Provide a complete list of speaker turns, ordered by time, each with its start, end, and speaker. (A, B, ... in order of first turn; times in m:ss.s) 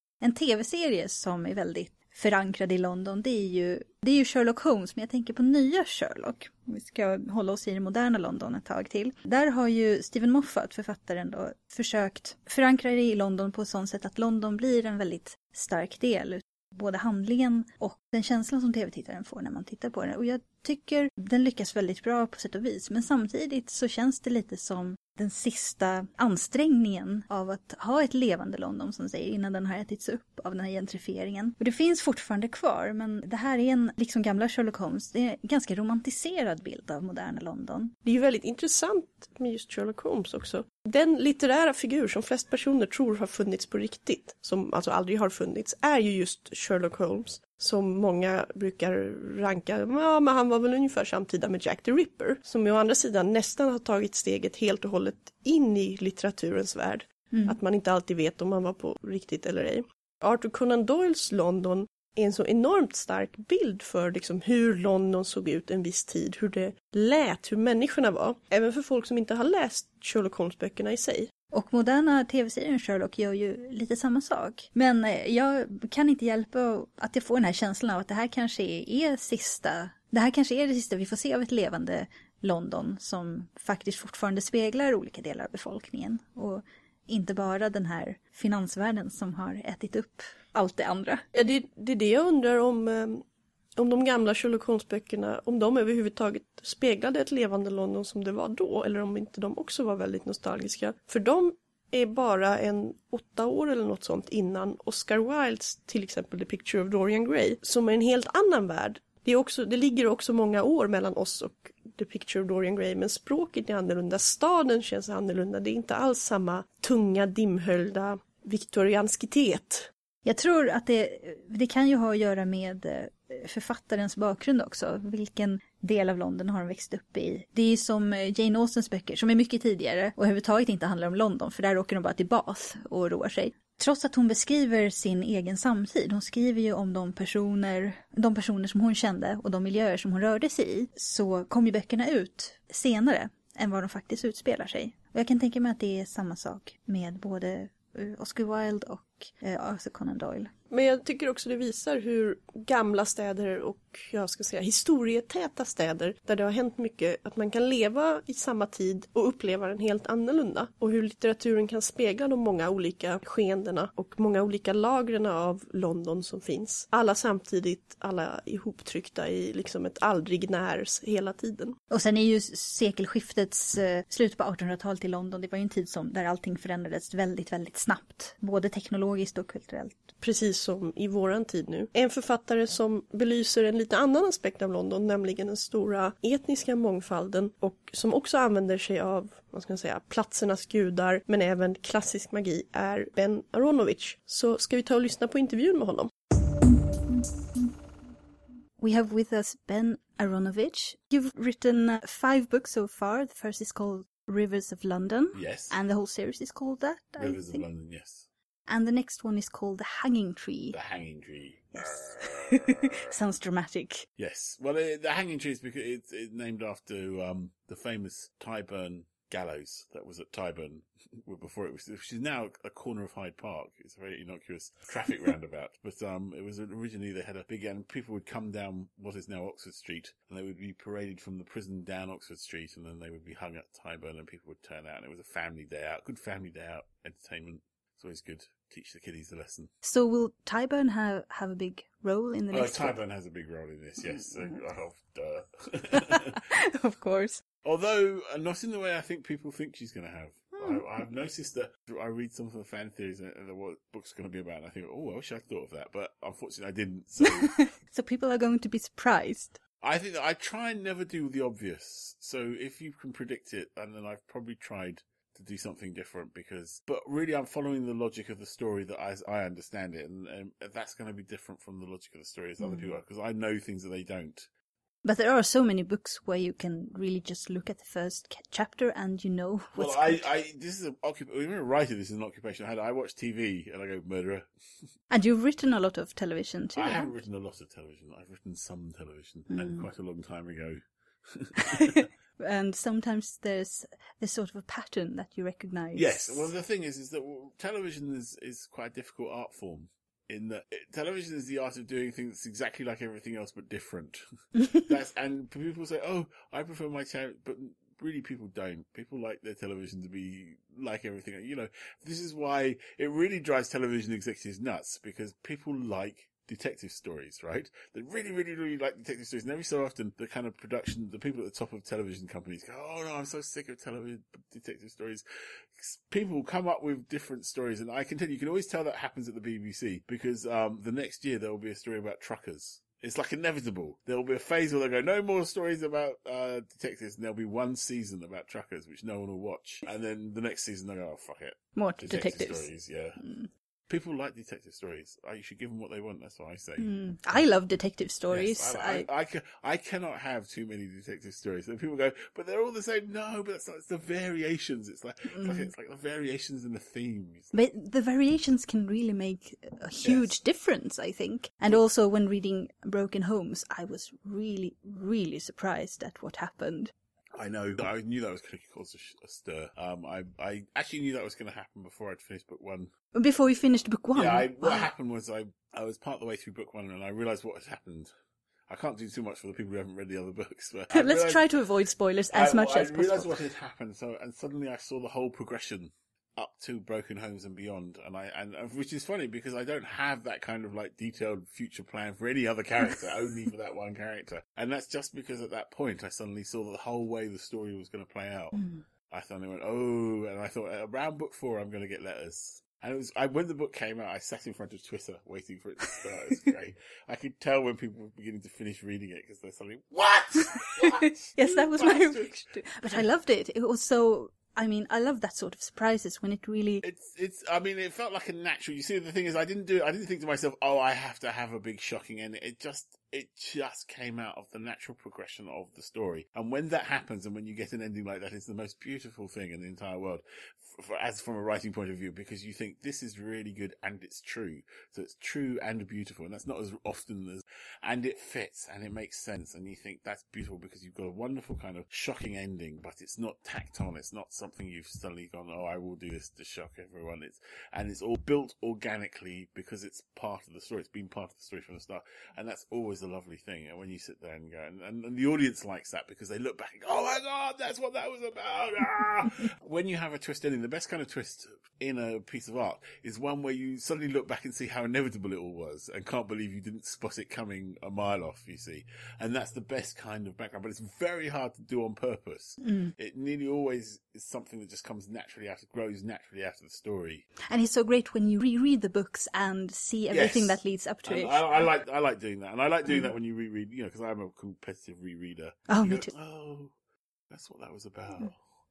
0:00.2-0:37.9 A
0:38.0-1:11.3 B
1:11.5-1:31.2 A
1:31.3-1:33.2 B
1:33.8-1:59.9 B
2:00.2-2:30.5 A
2:30.7-2:51.8 B
2:51.9-3:00.1 A
3:00.2-3:16.1 B
3:18.8-3:27.6 A
3:25.3-3:25.8 C
3:27.2-3:28.3 C
3:28.7-3:30.8 A
3:30.7-3:33.1 C
3:31.8-3:34.0 A
3:34.2-3:59.7 C
3:59.8-4:03.0 A
4:02.5-4:06.4 C
4:04.0-4:04.6 A
4:05.9-4:07.4 A
4:07.6-4:17.5 C
4:10.5-4:10.8 A
4:17.2-4:19.6 A
4:19.8-4:34.5 C
4:32.6-4:32.9 A
4:35.0-4:40.3 A
4:39.7-4:44.5 C
4:45.1-4:47.1 A
4:46.8-4:52.0 C
4:49.5-4:49.9 A
4:51.6-4:56.5 A
4:56.0-5:04.2 C
5:04.8-5:25.2 C
5:25.7-5:43.2 C
5:41.8-5:43.5 A
5:43.9-5:46.9 C
5:46.8-5:49.1 A
5:48.3-5:57.5 C
5:55.3-5:55.7 A
5:57.5-6:06.9 A
6:00.0-6:00.3 C
6:07.3-6:12.9 C
6:13.1-6:14.9 A
6:14.1-6:18.1 C
6:18.7-6:21.4 C
6:20.9-6:23.4 A
6:22.3-6:53.0 C
6:38.5-6:38.8 A
6:50.6-6:56.8 A
6:56.8-7:57.2 C
7:52.6-7:52.9 A
7:57.5-8:01.7 A
8:00.1-8:06.7 C
8:02.8-8:03.1 A
8:05.7-8:06.1 A
8:07.3-8:08.4 C